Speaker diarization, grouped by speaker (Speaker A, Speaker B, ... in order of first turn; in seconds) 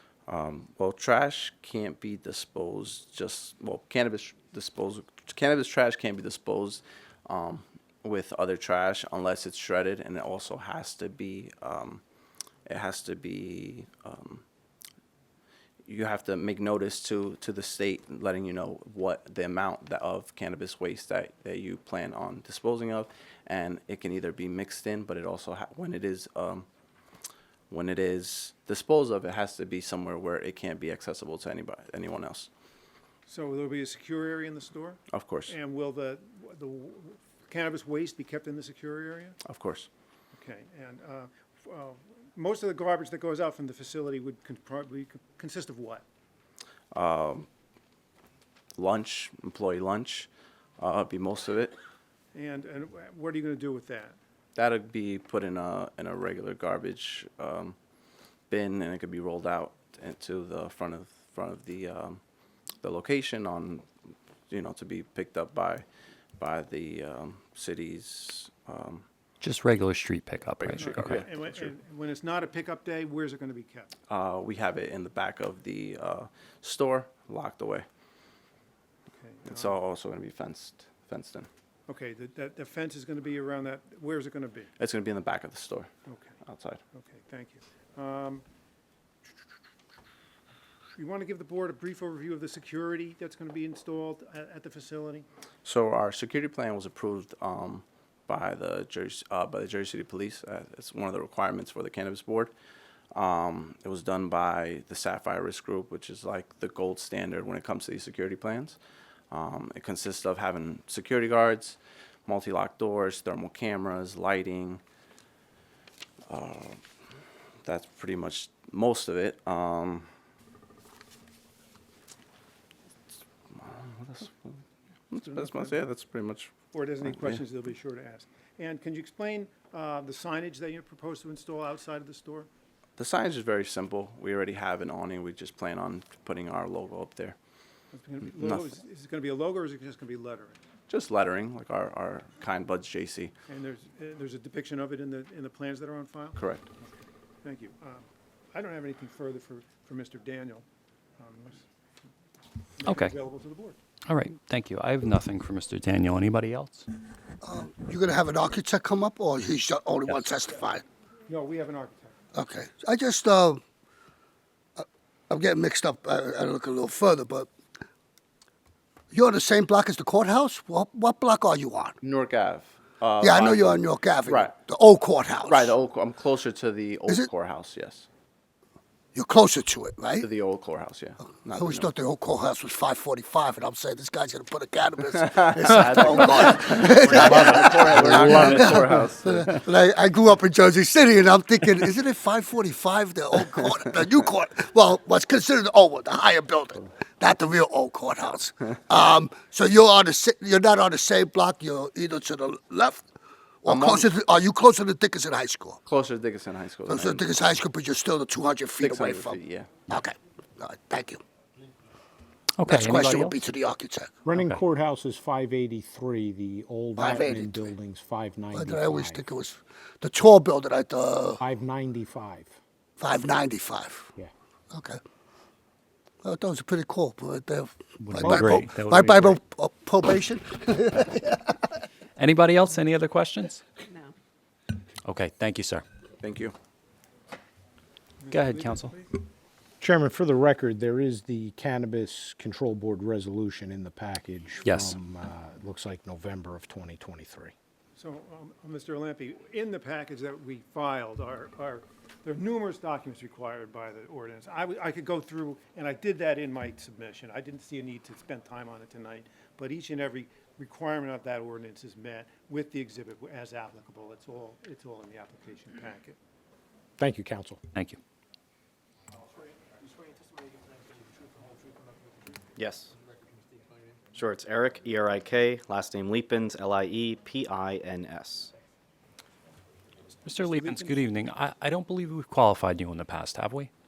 Speaker A: 0.3-12.0, 12.7-14.4, 15.9-26.6, 27.7-32.5, 35.1-35.5, 39.5-39.9, 46.9-47.5, 48.8-51.8, 54.5-57.8, 58.5-62.2, 62.8-63.9, 64.5-65.8, 66.4-69.0, 70.6-71.7, 74.1-77.8, 79.5-81.5, 84.8-85.9, 86.4-86.8, 95.6-102.5, 103.1-108.8, 109.3-114.8, 116.3-116.8, 117.6-120.1, 123.5-124.6, 125.1-126.5, 127.1-127.4, 133.0-137.3, 138.4-138.7, 140.9-143.3, 146.3-146.7, 172.0-174.5, 175.4-178.1, 180.2-181.9, 185.2-189.4, 203.7-204.1, 205.8-207.2, 208.8-209.7, 236.2-236.5
Speaker B: 33.3-39.4, 40.3-46.0, 52.3-54.2, 70.8-73.9, 79.2-79.7, 81.9-84.7, 86.1-86.4, 86.9-88.4, 91.0-95.2, 125.2-125.8, 126.7-132.5, 137.9-140.6, 143.5-146.9, 147.4-150.6, 151.2-151.7, 152.8-153.8, 161.3-162.2, 238.2-239.1, 247.9-266.1, 280.4-281.0
Speaker C: 69.4-71.2, 152.8-153.1, 154.1-156.8, 187.9-188.9, 212.6-213.4, 228.1-229.4, 232.2-233.6, 235.0-235.8, 238.3-238.9, 244.6-244.9, 267.7-268.0, 280.2-283.7
Speaker D: 157.4-160.8, 162.3-163.6, 164.8-167.5, 169.1-171.9, 173.2-175.7, 179.1-180.3, 181.5-203.1, 203.6-205.8, 206.9-211.2, 212.7-214.2, 217.0-217.7, 218.5-221.4, 223.0-224.1, 224.7-225.0, 226.2-231.4
Speaker E: 214.2-219.2, 221.4-222.6, 239.8-247.5, 267.0-267.6
Speaker F: 272.6-272.9, 274.1-278.5